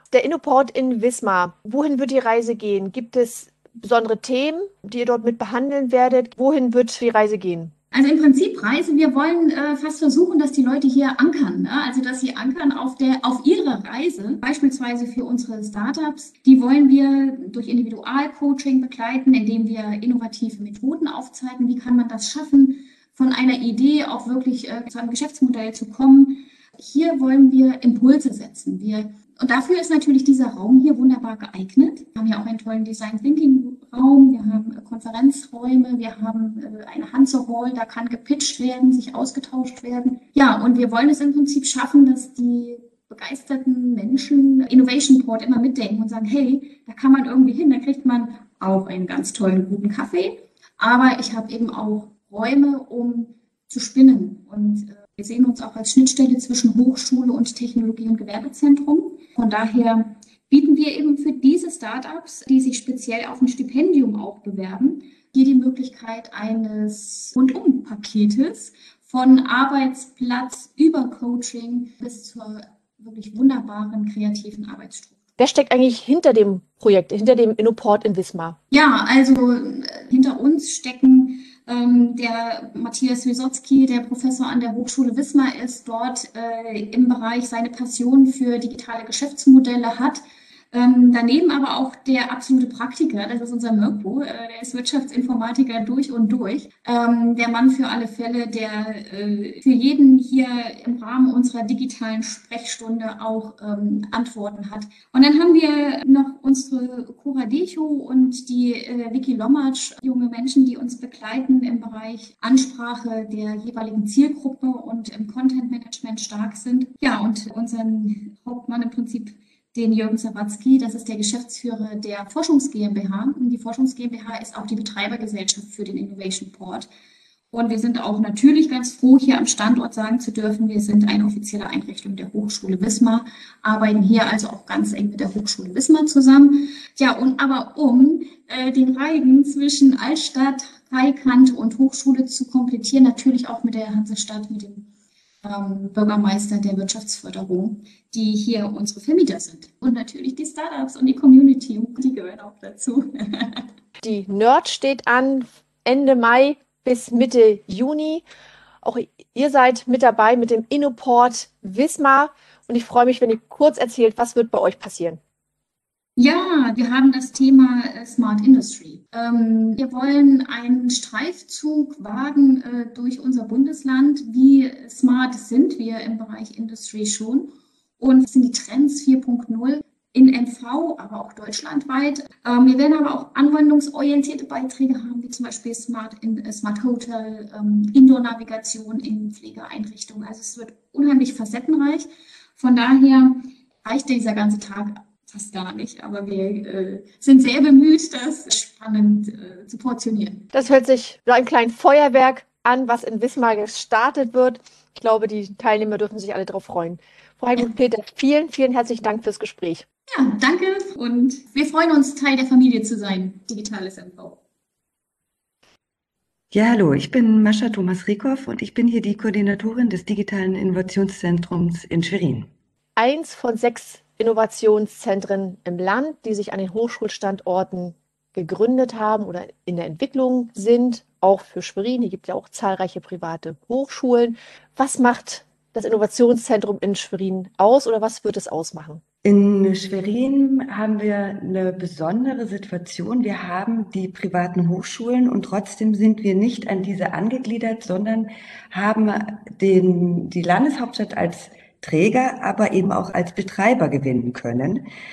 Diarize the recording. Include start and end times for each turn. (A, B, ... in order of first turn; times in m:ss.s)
0:00.1-0:07.7 A
0:07.9-1:15.2 B
1:15.4-1:18.6 A
1:18.7-2:06.9 B
2:07.5-2:24.9 B
2:25.4-2:33.7 B
2:34.0-2:38.2 A
2:38.8-2:45.2 A
2:46.2-3:20.5 B
3:20.5-3:29.9 A
3:30.1-3:34.4 B
3:36.5-3:42.5 C
3:43.0-3:59.0 A
3:59.2-4:14.9 C